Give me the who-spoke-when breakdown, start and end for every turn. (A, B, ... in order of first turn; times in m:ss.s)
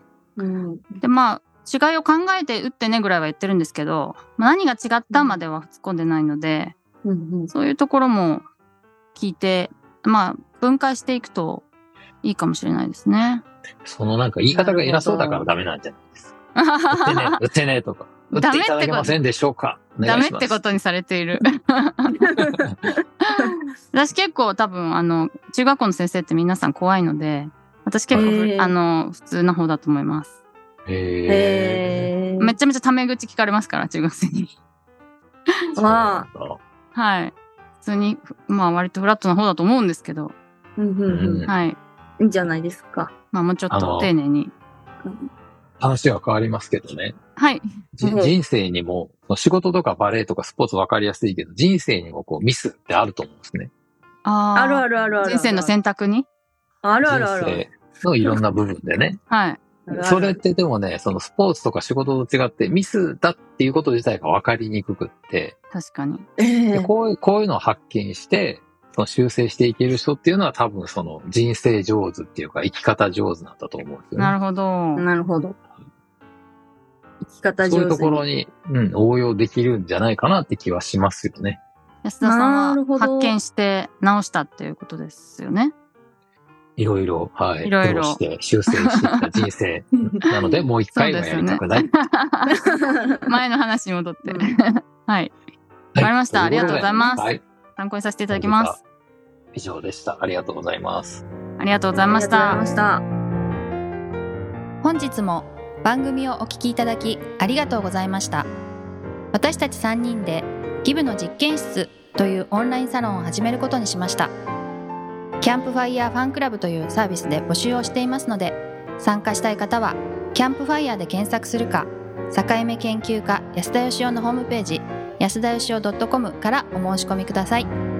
0:00.4-0:01.0 A
0:01.0-0:06.8 B
0:05.1-0:05.4 A
0:07.0-0:07.5 A
0:07.5-0:08.4 B
0:09.1-0:11.6 B
0:12.2-0:13.4 B
0:13.8-0:16.4 C
0:14.5-0:15.4 A
0:16.6-0:17.4 B
0:16.9-0:20.6 C
0:18.3-0:19.2 B
0:20.0-0:22.2 B
0:22.2-0:22.6 A
0:23.3-0:30.3 B
0:28.2-0:28.8 A
0:30.8-0:32.1 C
0:31.3-0:32.6 A
0:32.4-0:34.5 B
0:35.8-0:36.3 A
0:35.8-0:36.6 C
0:36.9-0:40.4 B
0:40.8-0:41.5 A
0:41.1-0:41.5 C
0:41.5-0:41.8 B
0:42.2-0:43.1 A
0:43.3-0:44.5 B
0:43.7-0:44.1 C
0:45.0-0:45.3 A
0:45.8-0:47.2 C
0:47.4-0:47.6 B
0:48.0-0:53.7 C
0:48.0-0:48.4 A
0:54.2-0:56.3 B
0:54.6-0:55.7 A
0:56.8-0:57.7 A
0:57.0-0:59.2 C
0:59.3-0:59.6 B
0:59.8-1:00.4 A
0:59.9-1:05.6 C
1:05.7-1:06.2 B
1:06.4-1:06.9 A
1:06.7-1:14.4 C
1:14.2-1:15.0 B
1:15.0-1:15.6 A
1:17.2-1:18.2 A
1:17.6-1:21.6 C
1:22.0-1:25.7 B
1:22.2-1:23.4 A
1:26.8-1:32.0 C
1:27.6-1:28.2 B
1:28.9-1:29.2 B
1:30.9-1:32.6 B
1:32.5-1:33.3 A
1:33.2-1:35.4 B
1:34.2-1:34.5 A
1:35.9-1:37.4 C
1:36.0-1:38.8 B
1:38.3-1:38.8 C
1:39.5-1:41.2 C
1:41.6-1:42.6 B
1:42.1-1:43.0 A
1:44.8-1:48.5 D
1:49.3-1:54.3 D
1:55.4-2:07.7 D